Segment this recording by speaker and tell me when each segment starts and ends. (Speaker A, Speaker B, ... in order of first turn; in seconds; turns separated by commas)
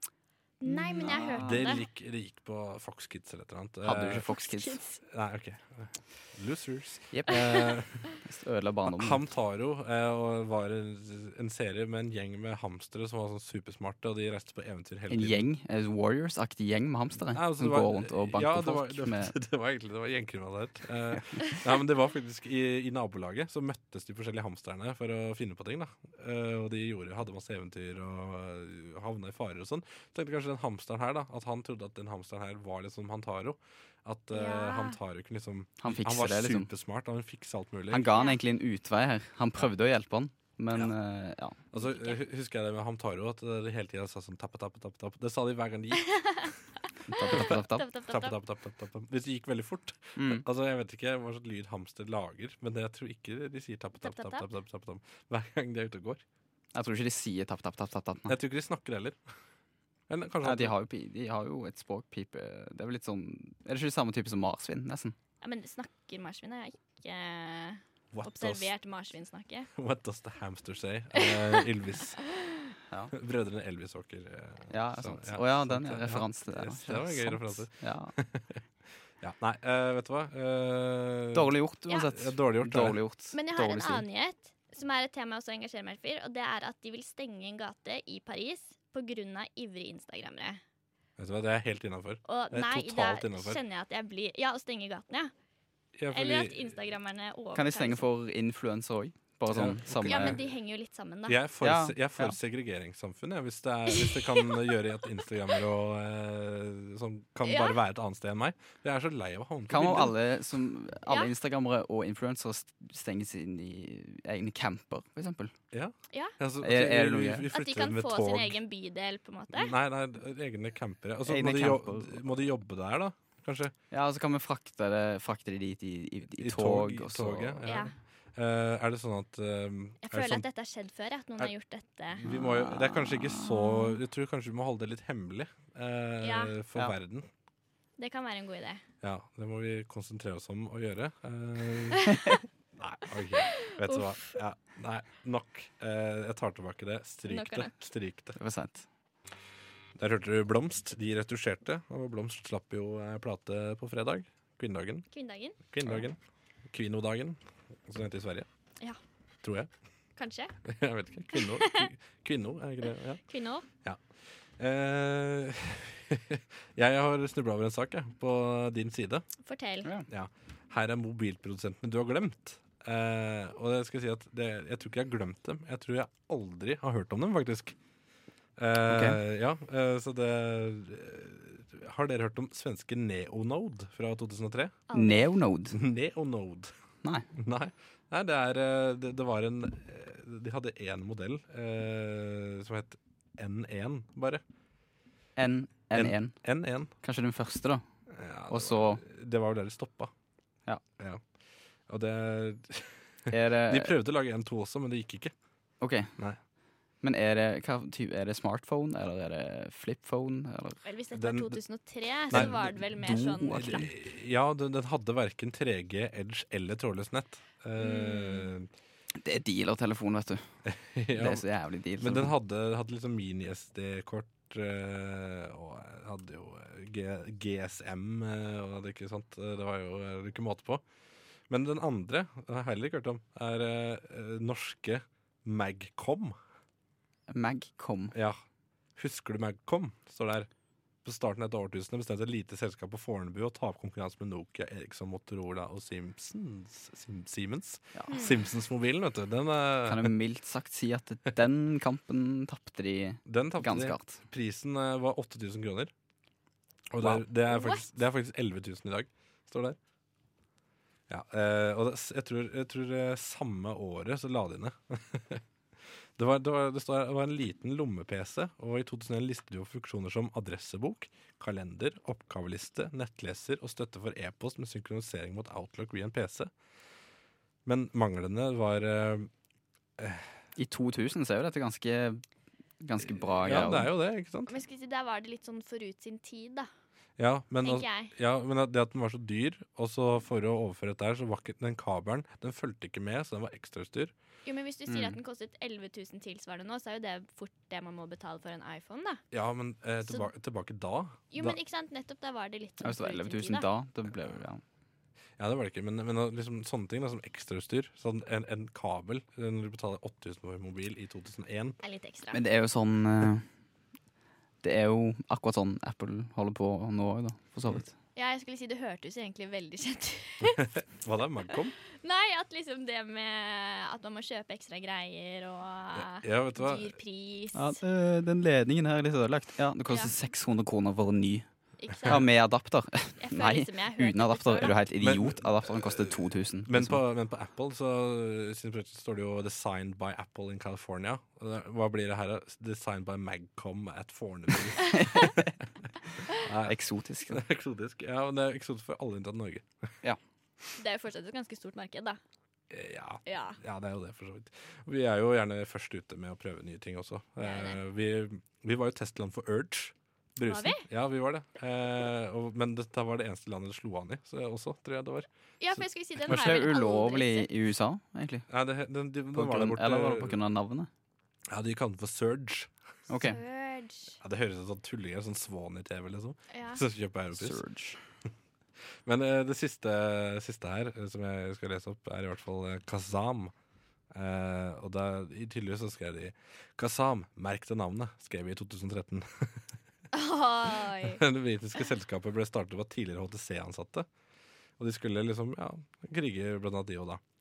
Speaker A: 0.6-1.9, Speaker B: 0.6-1.7, Speaker C: 1.1-4.3, Speaker B: 3.8-4.8, Speaker A: 4.3-5.0, Speaker C: 5.0-8.1, Speaker B: 7.1-7.4, Speaker B: 8.2-9.2, Speaker C: 8.8-15.4, Speaker B: 15.1-19.4, Speaker C: 17.3-38.2, Speaker A: 34.3-35.0, Speaker B: 35.8-36.7, Speaker B: 37.9-41.6, Speaker A: 38.1-38.4, Speaker C: 41.7-46.4, Speaker A: 41.7-42.2, Speaker A: 46.1-46.5, Speaker B: 47.1-47.9, Speaker C: 47.1-56.2, Speaker A: 47.2-48.4, Speaker B: 50.2-50.4, Speaker A: 54.0-54.5, Speaker B: 56.7-58.4, Speaker C: 58.3-59.2, Speaker C: 60.1-60.8, Speaker B: 60.4-65.2, Speaker A: 65.4-69.7, Speaker C: 68.1-68.7, Speaker C: 69.8-72.2, Speaker A: 71.2-71.6, Speaker C: 73.1-78.6, Speaker B: 74.7-78.1, Speaker C: 79.2-83.0, Speaker B: 81.3-84.0, Speaker A: 83.3-90.6, Speaker C: 91.2-93.6, Speaker A: 92.2-95.3, Speaker C: 96.0-96.8, Speaker A: 96.1-98.0, Speaker B: 97.5-100.4, Speaker C: 99.5-100.5, Speaker A: 100.0-101.4, Speaker C: 101.3-110.1, Speaker B: 101.6-102.4, Speaker A: 103.9-104.7, Speaker A: 107.4-107.8, Speaker B: 109.7-115.5, Speaker A: 111.1-111.3, Speaker C: 115.7-118.6, Speaker B: 116.6-117.5, Speaker A: 117.5-119.7, Speaker C: 119.5-123.7, Speaker B: 121.2-122.2, Speaker B: 123.9-127.6, Speaker C: 126.4-130.4, Speaker A: 127.7-127.9, Speaker A: 130.0-132.2, Speaker C: 132.1-137.3, Speaker B: 132.3-133.8, Speaker A: 136.2-136.6, Speaker A: 138.0-138.8, Speaker C: 139.0-142.1, Speaker C: 142.8-148.4, Speaker A: 143.4-144.1, Speaker A: 147.2-147.7, Speaker B: 148.4-148.9, Speaker C: 149.9-155.1, Speaker A: 155.1-155.6, Speaker C: 155.7-156.2, Speaker C: 156.7-158.5, Speaker C: 159.4-159.7, Speaker A: 160.2-160.5, Speaker C: 160.7-163.2, Speaker A: 161.3-161.9, Speaker A: 163.3-163.7, Speaker C: 164.6-169.2, Speaker A: 169.4-169.9, Speaker C: 170.1-177.7, Speaker C: 178.6-184.8, Speaker B: 178.9-179.2, Speaker A: 184.9-185.3, Speaker B: 184.9-185.8, Speaker C: 185.7-186.7, Speaker C: 187.4-194.4, Speaker B: 195.4-196.4, Speaker C: 195.9-196.9, Speaker B: 197.0-197.8, Speaker C: 198.1-200.1, Speaker B: 198.5-199.0, Speaker C: 201.9-205.3, Speaker B: 203.3-203.9, Speaker B: 205.8-206.1, Speaker B: 207.0-210.8, Speaker A: 210.8-213.7, Speaker C: 211.1-211.6, Speaker C: 212.3-218.7, Speaker B: 212.3-213.9, Speaker A: 217.8-218.5, Speaker B: 219.2-220.5, Speaker C: 220.7-221.5, Speaker B: 221.1-222.3, Speaker C: 222.0-230.8, Speaker C: 231.5-236.4, Speaker B: 237.3-238.1, Speaker C: 238.1-238.4, Speaker C: 238.9-240.5, Speaker C: 241.0-250.1, Speaker A: 248.1-248.5, Speaker B: 249.9-254.2, Speaker C: 253.2-255.9, Speaker C: 256.9-259.8, Speaker A: 257.5-257.8, Speaker C: 261.1-265.4, Speaker C: 266.2-276.5, Speaker C: 277.6-279.3, Speaker C: 280.0-280.3, Speaker B: 280.6-282.2, Speaker B: 282.8-283.9, Speaker C: 283.4-284.6, Speaker A: 284.5-286.7, Speaker C: 287.2-294.1, Speaker A: 287.6-288.1, Speaker A: 294.4-299.2, Speaker B: 294.9-295.2, Speaker C: 299.3-301.6, Speaker A: 301.3-303.6, Speaker B: 302.8-304.6, Speaker C: 305.4-311.8, Speaker A: 311.8-312.4, Speaker B: 312.3-313.4, Speaker B: 314.6-317.9, Speaker A: 318.1-320.7, Speaker C: 320.4-321.8, Speaker A: 322.0-327.8, Speaker C: 325.9-326.9, Speaker B: 327.5-331.5, Speaker A: 331.8-332.2, Speaker C: 331.9-332.2, Speaker B: 332.1-337.0, Speaker A: 333.2-334.8, Speaker C: 335.0-345.5, Speaker B: 344.9-345.4, Speaker C: 346.3-346.8, Speaker B: 346.6-347.4, Speaker C: 347.3-349.6, Speaker A: 350.8-352.2, Speaker C: 352.7-366.7, Speaker A: 353.2-353.6, Speaker A: 357.4-357.8, Speaker A: 360.4-360.9, Speaker A: 365.6-367.5, Speaker B: 366.2-368.4, Speaker C: 368.5-370.4, Speaker B: 369.3-370.9, Speaker C: 371.5-372.7, Speaker B: 373.1-373.4, Speaker A: 373.2-374.1, Speaker C: 374.2-377.6, Speaker A: 376.5-376.8, Speaker B: 377.3-378.0, Speaker C: 379.1-383.5, Speaker C: 384.1-389.7, Speaker A: 390.1-391.2, Speaker C: 391.0-394.1, Speaker C: 394.8-397.2